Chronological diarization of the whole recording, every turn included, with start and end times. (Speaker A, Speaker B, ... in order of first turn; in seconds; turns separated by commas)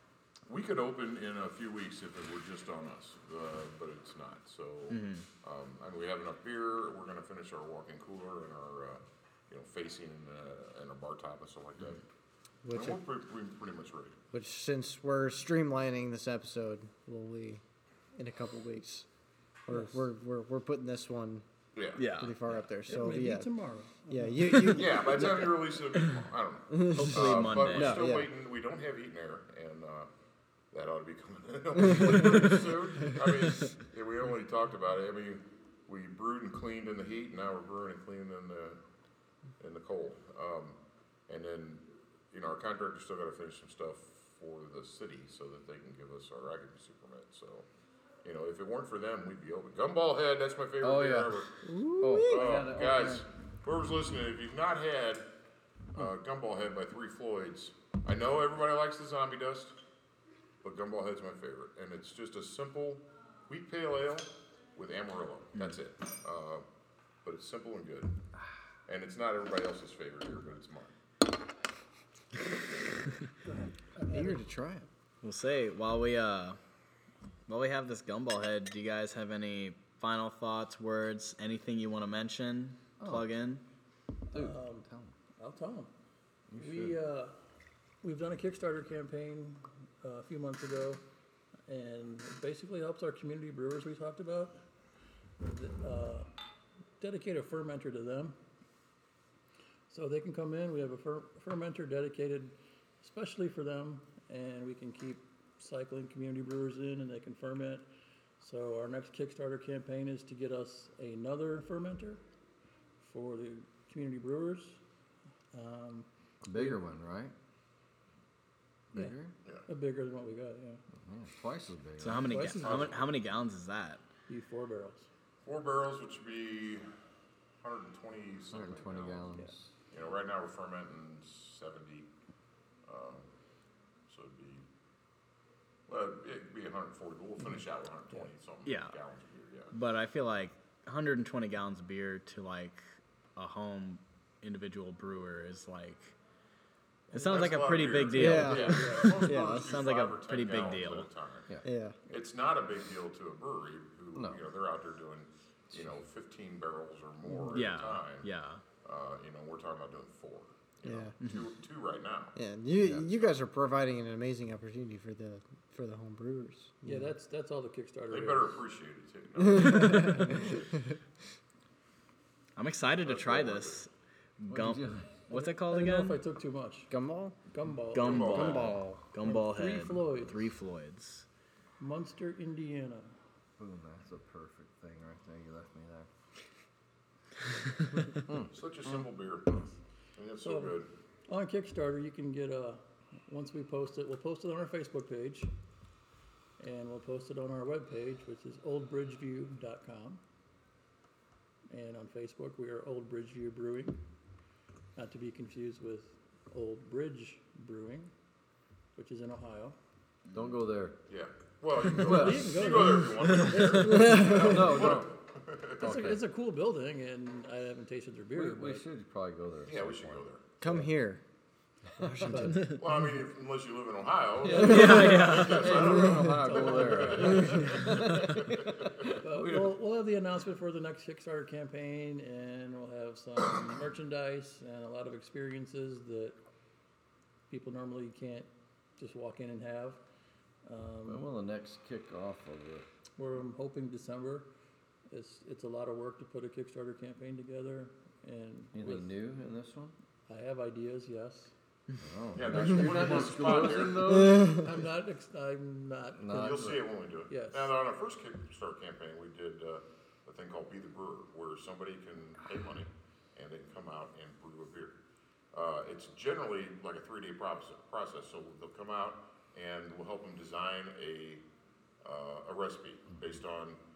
Speaker A: 0.5-12.0, Speaker B: 4.9-5.2, Speaker C: 12.6-13.0, Speaker A: 12.7-14.2, Speaker C: 14.3-17.6, Speaker C: 18.1-19.1, Speaker C: 19.7-21.4, Speaker D: 19.7-20.0, Speaker A: 21.8-22.1, Speaker B: 21.9-22.4, Speaker C: 22.2-23.5, Speaker D: 22.9-24.8, Speaker C: 24.1-25.6, Speaker A: 24.6-30.1, Speaker C: 26.7-28.3, Speaker B: 26.8-28.1, Speaker A: 30.7-38.8, Speaker C: 31.8-33.2, Speaker A: 39.6-40.8, Speaker A: 41.3-47.6, Speaker A: 48.2-51.6, Speaker E: 50.8-51.5, Speaker C: 51.6-52.6, Speaker E: 52.0-53.2, Speaker A: 52.2-55.2, Speaker A: 55.9-59.8, Speaker A: 60.6-66.6, Speaker A: 67.2-68.2, Speaker A: 68.8-70.9, Speaker D: 73.4-74.4, Speaker C: 74.1-74.8, Speaker B: 75.2-76.6, Speaker B: 77.5-83.6, Speaker E: 83.0-83.3, Speaker E: 84.3-85.1, Speaker D: 84.3-85.9, Speaker E: 86.5-87.0, Speaker D: 86.6-87.3, Speaker D: 88.0-91.0, Speaker D: 91.7-94.6, Speaker D: 95.4-96.3, Speaker D: 97.0-98.4, Speaker D: 99.9-107.8, Speaker D: 108.4-112.2, Speaker D: 113.0-114.8, Speaker D: 115.5-116.8, Speaker E: 116.4-117.3, Speaker E: 118.9-119.3, Speaker D: 119.7-120.8, Speaker E: 120.9-122.5, Speaker B: 122.0-124.0, Speaker D: 122.2-122.9, Speaker A: 122.5-123.0, Speaker D: 124.3-125.1, Speaker A: 125.4-126.9, Speaker A: 127.6-129.3, Speaker E: 128.5-129.7, Speaker A: 129.9-132.1, Speaker A: 132.9-133.3, Speaker A: 134.1-134.7, Speaker A: 135.9-139.7, Speaker B: 138.7-139.0, Speaker B: 139.7-142.8, Speaker B: 143.3-146.1, Speaker B: 147.1-151.1, Speaker A: 147.1-151.5, Speaker C: 148.1-149.8, Speaker D: 148.6-149.1, Speaker C: 151.6-152.0, Speaker A: 152.1-158.3, Speaker E: 154.1-154.4, Speaker B: 157.5-158.6, Speaker A: 158.8-162.3, Speaker C: 160.8-161.1, Speaker C: 162.3-167.1, Speaker D: 166.8-168.6, Speaker A: 168.1-170.6, Speaker C: 169.4-170.7, Speaker D: 169.9-170.4, Speaker B: 172.6-176.2, Speaker A: 173.0-173.8, Speaker E: 174.5-175.3, Speaker D: 175.3-176.9, Speaker C: 176.9-177.4, Speaker D: 177.5-178.6, Speaker B: 177.9-181.2, Speaker A: 178.0-178.8, Speaker C: 178.2-179.1, Speaker D: 179.2-180.5, Speaker D: 181.8-183.2, Speaker E: 183.6-186.1, Speaker E: 188.1-189.7, Speaker A: 188.5-190.9, Speaker D: 190.4-195.5, Speaker D: 196.6-200.2, Speaker D: 201.7-204.0, Speaker D: 204.9-208.1, Speaker D: 208.9-209.8, Speaker E: 210.3-211.0, Speaker A: 211.1-216.0, Speaker D: 211.9-214.7, Speaker E: 212.0-212.7, Speaker C: 213.8-214.7, Speaker E: 214.2-215.1, Speaker D: 215.8-218.8, Speaker E: 215.8-216.2, Speaker E: 218.3-220.9, Speaker A: 219.7-220.4, Speaker C: 220.6-221.2, Speaker E: 222.0-222.6, Speaker C: 222.0-222.8, Speaker D: 222.3-222.8, Speaker A: 222.6-228.8, Speaker E: 224.4-229.8, Speaker B: 224.6-225.8, Speaker D: 224.6-225.3, Speaker D: 225.8-228.3, Speaker D: 229.2-236.4, Speaker D: 237.5-240.0, Speaker D: 240.6-241.2, Speaker E: 241.1-242.9, Speaker D: 243.2-244.5, Speaker D: 245.1-249.1, Speaker E: 248.7-249.9, Speaker D: 250.3-251.5, Speaker E: 252.0-254.9, Speaker A: 252.3-254.2, Speaker D: 253.0-257.7, Speaker C: 254.3-254.6, Speaker E: 256.2-256.8, Speaker A: 256.3-265.0, Speaker A: 265.5-271.4, Speaker A: 272.0-273.8